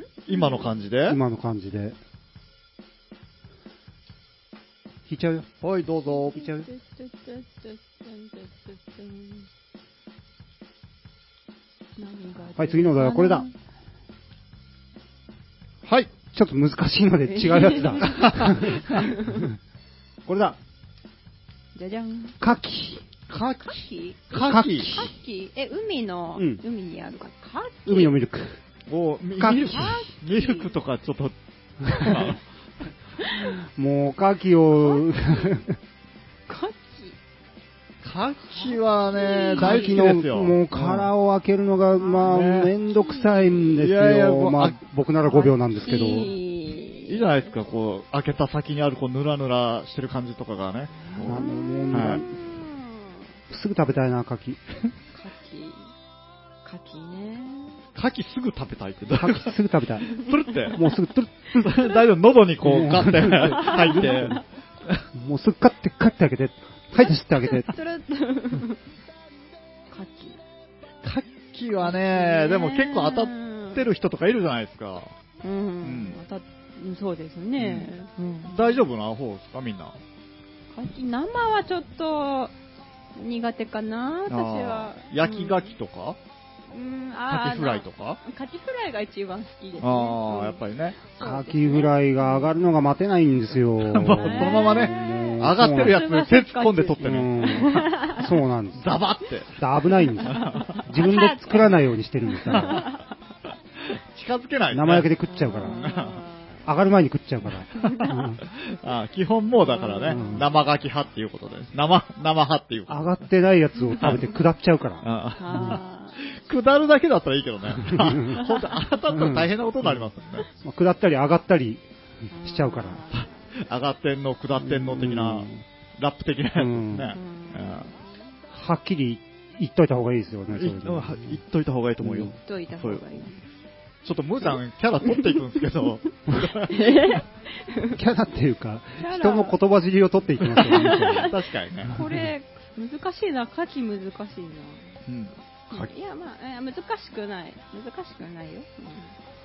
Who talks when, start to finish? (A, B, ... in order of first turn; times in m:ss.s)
0:00.3-0:01.2 A
0:00.3-0:00.7 B
0:01.0-0:02.0 C
0:05.1-0:05.5 C
0:05.6-0:06.7 A
0:06.1-0:09.5 B
0:12.0-0:13.5 B
0:12.6-0:13.4 C
0:15.8-0:16.1 A
0:16.3-0:19.5 C
0:17.3-0:19.5 B
0:18.0-0:18.9 A
0:20.3-0:20.6 C
0:21.8-0:22.4 B
0:22.4-0:23.0 C
0:23.3-0:28.1 B
0:24.3-0:25.0 A
0:24.3-0:25.1 C
0:27.8-0:28.6 C
0:28.9-0:32.4 A
0:29.4-0:29.9 C
0:29.7-0:30.7 B
0:33.2-0:33.6 B
0:33.6-0:35.8 C
0:36.5-0:37.2 B
0:38.0-0:41.1 A
0:38.5-0:40.1 B
0:39.6-0:46.3 C
0:42.0-0:42.4 B
0:42.2-0:42.7 A
0:42.9-0:43.6 B
0:43.7-0:44.8 A
0:45.3-0:47.3 B
0:47.1-0:52.2 A
0:51.1-0:53.2 B
0:51.2-0:52.4 C
0:53.5-0:54.6 C
0:55.1-0:55.9 B
0:56.6-0:57.8 B
0:58.0-0:59.6 A
0:59.2-1:01.7 C
1:00.1-1:00.8 A
1:01.6-1:05.0 A
1:02.6-1:04.2 C
1:03.6-1:04.4 B
1:05.2-1:07.7 C
1:07.0-1:08.8 B
1:09.9-1:10.4 B
1:11.0-1:15.1 A
1:11.8-1:13.8 B
1:15.4-1:18.8 B
1:15.8-1:16.2 A
1:17.6-1:17.9 A
1:18.5-1:20.0 A
1:20.7-1:22.5 B
1:23.2-1:25.7 B
1:24.3-1:26.2 A
1:26.7-1:32.5 B
1:27.3-1:28.2 A
1:29.8-1:31.0 A
1:31.2-1:36.0 C
1:33.8-1:37.9 A
1:34.1-1:38.3 B
1:37.0-1:38.9 C
1:38.8-1:39.6 A
1:39.6-1:42.8 C
1:40.2-1:43.1 B
1:40.3-1:40.8 A
1:42.5-1:42.8 A
1:44.1-1:46.2 A
1:44.7-1:45.8 C
1:45.3-1:46.6 B
1:46.7-1:48.4 C
1:47.8-1:48.3 B
1:47.8-1:53.2 A
1:49.6-1:50.5 B
1:50.1-1:50.5 C
1:52.9-1:55.8 C
1:54.0-1:54.3 A
1:55.0-2:00.5 A
1:55.4-1:56.2 B
1:57.8-1:58.4 C
1:59.1-2:00.0 C
2:00.6-2:01.8 C
2:02.3-2:03.3 B
2:02.4-2:03.1 C
2:03.1-2:07.9 A
2:04.6-2:05.6 C
2:06.6-2:07.1 C
2:07.1-2:08.0 B
2:08.5-2:11.4 C
2:10.5-2:13.2 A
2:12.0-2:12.3 C
2:12.4-2:13.5 B
2:14.0-2:17.2 A
2:16.3-2:18.0 B
2:17.9-2:21.3 C
2:19.0-2:19.6 B
2:20.6-2:24.9 B
2:20.7-2:22.0 A
2:21.9-2:22.2 C
2:25.1-2:25.9 A
2:25.7-2:29.2 B